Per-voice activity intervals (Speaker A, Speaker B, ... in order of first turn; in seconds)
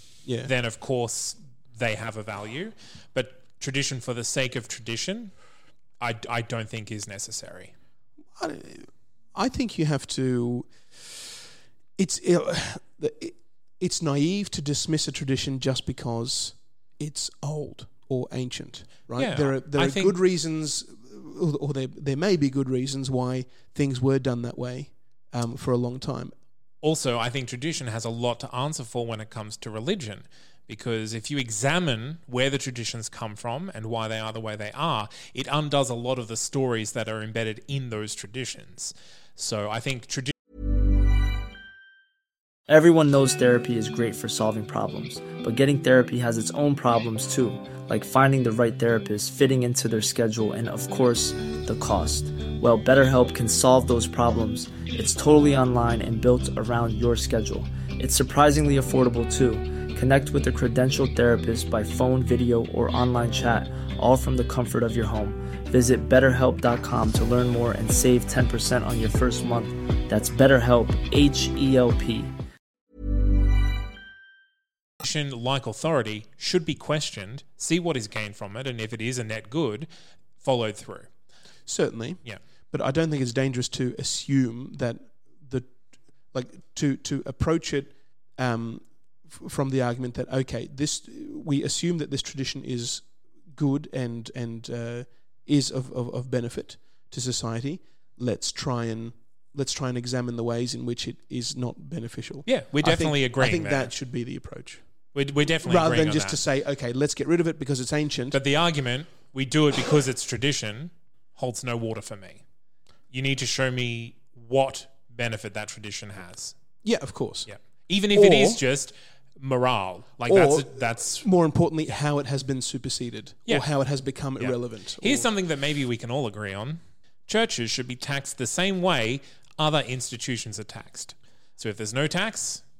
Speaker A: 0.3-0.5, 8.4-10.7, 12.0-26.3, 81.7-82.2, 82.7-85.7, 86.3-104.8, 105.6-108.4, 116.8-117.5, 118.1-118.6, 120.3-125.3
Speaker B: 0.4-5.3, 6.0-7.7, 19.2-20.2, 26.8-40.3, 75.0-79.9, 80.4-81.1, 102.5-103.9, 105.2-106.4, 108.3-112.4, 113.1-116.5, 117.5-121.3, 124.4-132.6
Speaker C: 42.7-72.3